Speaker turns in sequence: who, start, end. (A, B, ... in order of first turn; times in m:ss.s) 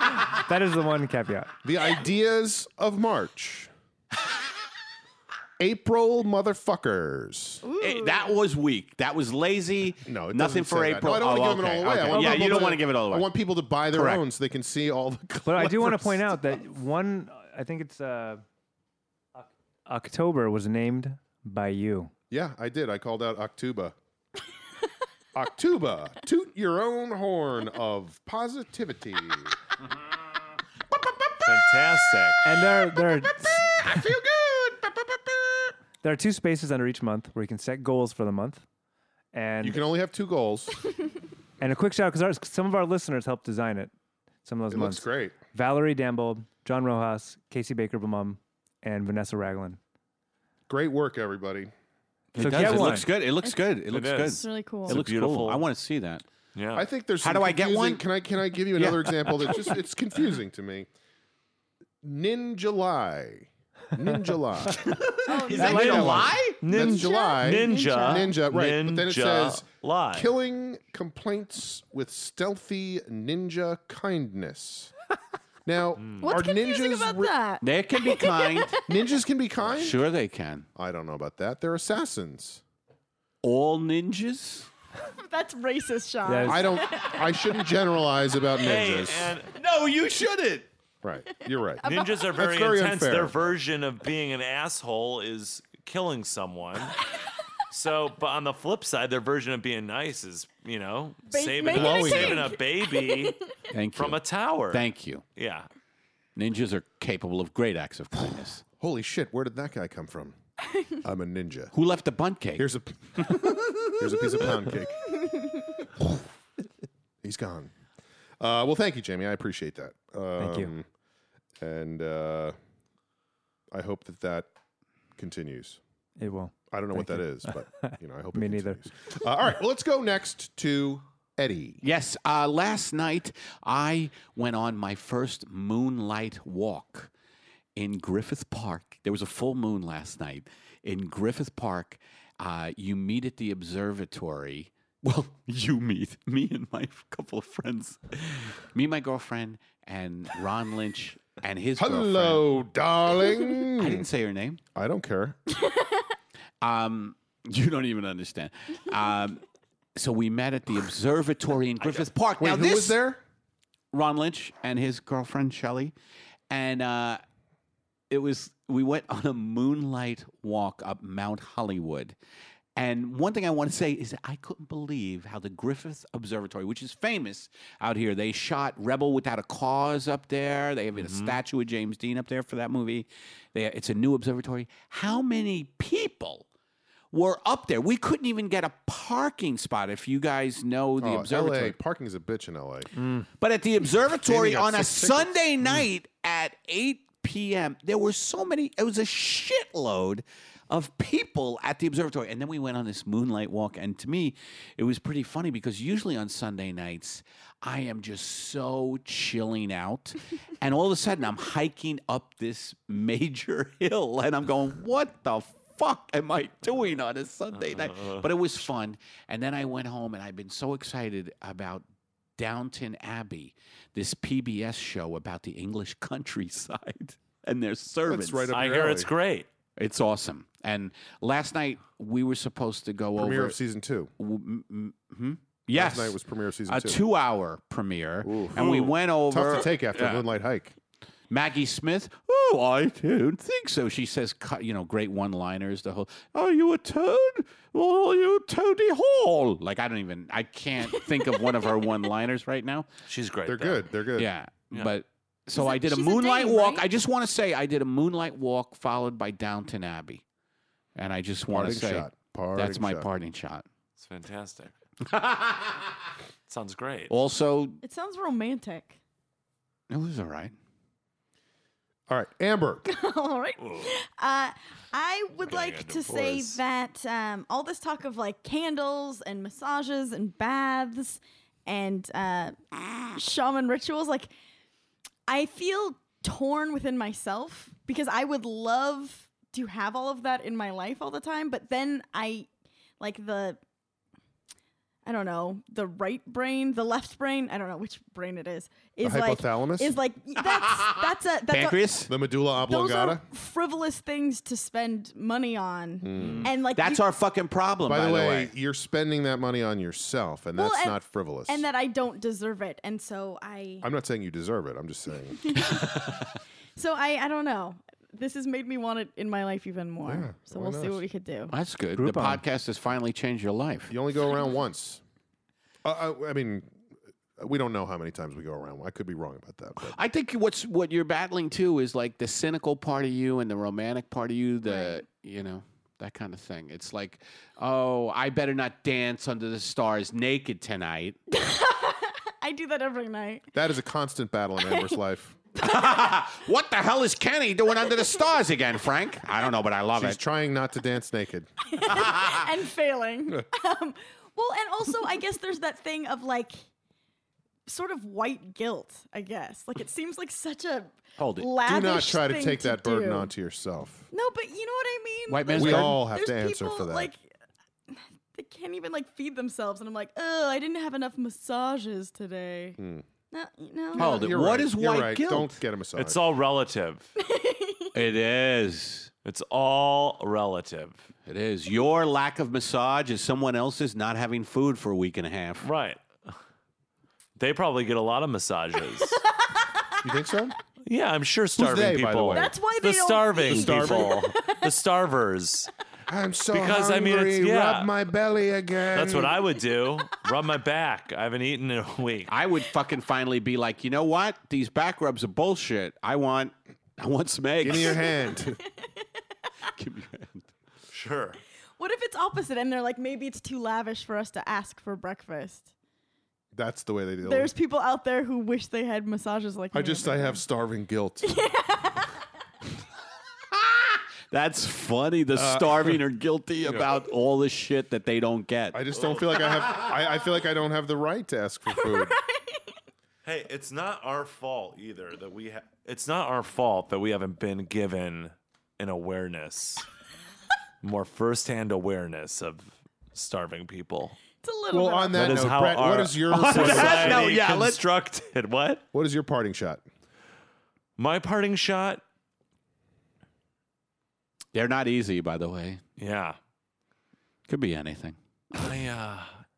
0:00.3-0:01.5 A
0:01.6-0:03.7 B
0:05.6-0:07.6 B
0:07.6-0:08.3 C
0:07.8-0:13.3 D
0:10.1-0:16.5 B
0:12.1-0:12.6 A
0:13.9-0:14.2 D
0:15.4-0:18.4 A
0:19.4-0:22.1 A
0:22.3-0:24.0 B
0:25.3-0:29.6 B
0:31.1-0:31.4 D
0:31.4-0:32.4 E
0:32.4-0:33.8 A
0:33.2-0:35.7 D
0:36.0-0:38.6 A
0:39.3-0:39.8 A
0:39.6-0:40.7 B
0:41.6-0:43.9 A
0:44.4-0:49.8 A
0:44.7-0:45.4 B
0:50.7-0:51.7 B
0:52.3-0:56.2 D
0:52.4-0:53.1 A
0:53.4-0:55.0 C
0:53.9-0:55.6 E
0:56.6-0:56.9 E
0:56.8-1:00.9 B
0:57.2-0:58.0 D
0:58.8-0:59.7 D
1:02.0-1:05.0 B
1:04.8-1:06.6 D
1:05.3-1:08.3 C
1:05.6-1:14.9 B
1:05.6-1:10.3 E
1:15.7-1:17.3 B
1:16.0-1:16.3 E
1:16.2-1:18.8 C
1:17.6-1:18.8 D
1:18.9-1:20.0 B
1:19.7-1:20.7 D
1:20.8-1:22.6 B
1:23.4-1:24.7 D
1:25.1-1:27.7 C
1:26.2-1:26.8 A
1:26.4-1:29.4 B
1:28.6-1:29.5 E
1:29.6-1:30.7 D
1:31.0-1:33.5 B
1:31.8-1:32.4 C
1:31.8-1:37.0 E
1:37.7-1:43.4 E
1:41.3-1:43.4 C
1:41.7-1:42.5 B
1:43.7-1:45.2 D
1:44.0-1:44.8 E
1:45.4-1:45.7 E
1:46.4-1:48.6 D
1:48.8-1:50.4 B
1:51.0-1:51.7 B
1:51.7-1:54.6 D
1:52.6-1:55.1 B
1:57.2-1:57.7 B
1:58.4-2:00.9 B
2:00.4-2:00.7 A
2:01.6-2:02.6 B
2:03.7-2:04.5 B
2:05.2-2:05.8 B
2:06.2-2:08.8 A
2:06.7-2:11.8 B
2:11.8-2:17.1 D
2:17.8-2:32.4 D
2:31.8-2:34.1 B
2:33.7-2:34.6 D
2:34.8-2:35.4 B
2:35.6-2:36.0 C
2:36.6-2:39.4 D
2:40.0-2:43.0 D
2:42.4-2:43.2 B
2:43.9-2:45.9 D
2:46.5-2:47.2 D
2:48.1-2:52.2 D
2:52.8-3:06.5 D
3:01.0-3:01.4 E
3:07.1-3:11.8 D
3:11.0-3:12.9 B
3:13.4-3:41.8 D
3:14.2-3:15.4 B
3:37.6-3:38.2 E
3:42.4-3:48.5 D
3:48.1-3:49.1 B
3:48.5-3:49.5 E
3:49.8-3:53.6 D
3:53.2-3:54.1 B
3:54.2-4:00.3 D
3:55.7-3:57.0 B
3:58.2-3:58.7 B
3:58.6-3:58.9 E
3:59.3-4:00.8 B
4:01.3-4:12.9 D
4:13.1-4:13.9 E
4:13.5-4:14.3 B
4:14.2-4:20.2 D
4:15.6-4:16.8 C
4:21.0-4:23.7 D
4:21.5-4:23.1 B
4:24.0-4:24.7 E
4:25.0-4:26.0 D
4:26.5-4:27.1 E
4:27.1-4:27.8 D
4:27.8-4:29.0 C
4:29.9-4:30.5 D
4:32.1-4:32.8 B
4:32.9-4:44.3 C
4:33.6-4:33.9 E
4:35.4-4:36.5 E
4:36.1-4:36.4 B
4:45.3-4:52.5 C
4:53.0-4:53.6 C
4:55.0-5:01.9 C
4:59.0-5:00.0 B
5:00.4-5:02.1 D
5:02.1-5:03.2 B
5:02.7-5:07.0 C
5:06.0-5:06.5 B
5:06.7-5:08.5 D
5:07.9-5:11.6 B
5:10.6-5:13.9 C
5:13.8-5:15.8 B
5:15.4-5:16.0 C
5:16.8-5:21.6 C
5:20.0-5:21.0 B
5:21.5-5:23.9 D
5:22.0-5:22.4 A
5:23.9-5:25.0 B
5:25.8-5:26.7 B
5:27.4-5:30.0 B
5:29.8-5:41.2 D
5:34.6-5:35.0 C
5:41.3-5:43.5 C
5:43.6-5:45.4 B
5:44.7-5:45.0 C
5:45.6-5:46.1 C
5:45.6-5:50.2 D
5:50.0-5:51.5 B
5:51.7-5:56.6 C
5:52.0-5:52.4 D
5:57.7-6:03.3 C
6:01.2-6:01.5 D
6:01.6-6:04.1 B
6:04.1-6:07.2 C
6:05.3-6:06.0 D
6:05.5-6:07.1 B
6:07.9-6:12.8 C
6:12.8-6:13.0 B
6:13.3-6:14.2 C
6:14.0-6:15.6 D
6:14.0-6:16.2 B
6:16.0-6:17.1 E
6:17.2-6:17.9 C
6:17.9-6:19.1 D
6:19.2-6:21.0 E
6:21.3-6:25.7 D
6:25.6-6:26.4 E
6:27.4-6:29.2 E
6:29.0-6:29.9 C
6:30.0-6:30.6 B
6:30.8-6:35.7 E
6:31.6-6:32.5 B
6:32.3-6:34.7 C
6:33.4-6:34.2 B
6:36.1-6:39.5 B
6:36.5-6:37.9 E
6:38.9-6:42.3 E
6:42.3-6:48.0 D
6:47.6-6:48.6 B
6:47.7-6:48.5 C
6:49.8-6:50.5 D
6:50.9-6:51.4 E
6:51.8-6:55.7 C
6:56.5-6:57.5 B
6:57.2-7:00.4 C
6:59.7-7:01.4 B
7:01.2-7:02.1 C
7:03.5-7:08.9 D
7:05.4-7:06.0 B
7:06.6-7:06.9 B
7:08.7-7:12.2 B
7:11.8-7:12.6 C
7:13.2-7:19.9 E
7:20.8-7:24.2 E
7:24.4-7:25.6 C
7:24.7-7:27.3 B
7:25.1-7:28.8 E
7:26.3-7:27.8 D
7:28.9-7:29.8 B
7:31.0-7:32.0 E
7:34.5-7:35.8 D
7:36.0-7:36.4 E
7:37.5-7:38.6 D
7:38.5-7:39.4 E